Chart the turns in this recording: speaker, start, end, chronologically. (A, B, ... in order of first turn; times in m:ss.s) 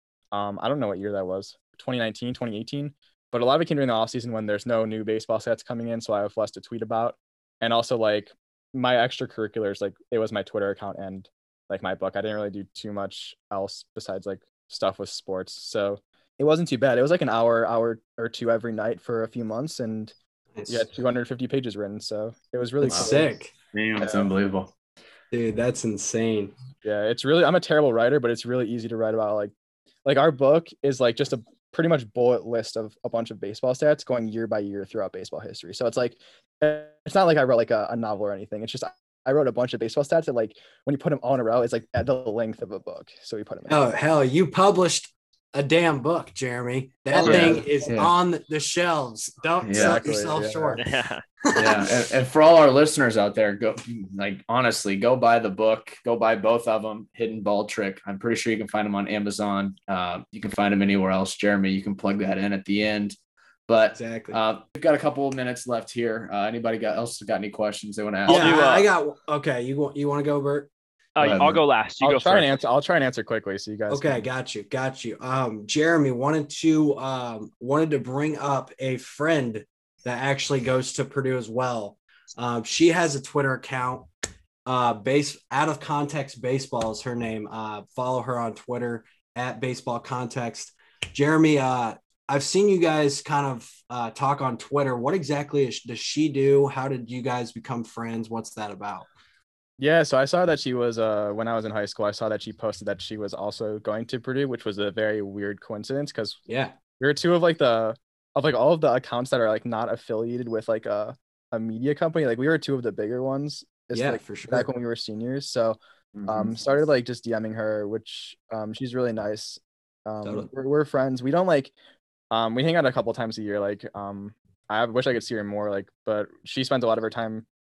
0:00.3-0:20.2 A
0:20.5-0:20.9 B
0:20.7-0:23.3 A
0:22.8-0:24.1 B
0:22.8-0:23.2 C
0:23.8-0:24.7 C
0:24.0-0:24.3 A
0:25.3-0:26.5 B
0:26.8-0:29.5 A
0:30.0-0:43.8 A
0:43.7-0:50.9 B
0:47.1-0:47.8 A
0:47.2-0:48.1 C
0:49.6-0:50.0 C
0:49.8-0:50.8 A
0:50.8-0:51.2 D
0:51.5-0:51.9 B
0:51.6-1:03.2 C
1:03.7-1:08.6 C
1:03.9-1:04.4 B
1:08.3-1:10.7 B
1:08.3-1:08.9 D
1:11.2-1:12.6 D
1:11.2-1:11.6 C
1:12.0-1:14.3 A
1:13.9-1:24.1 B
1:24.7-1:39.1 B
1:39.8-1:46.4 A
1:46.5-1:46.8 B
1:47.0-2:01.7 A
1:53.9-1:54.7 B
2:02.3-2:07.5 A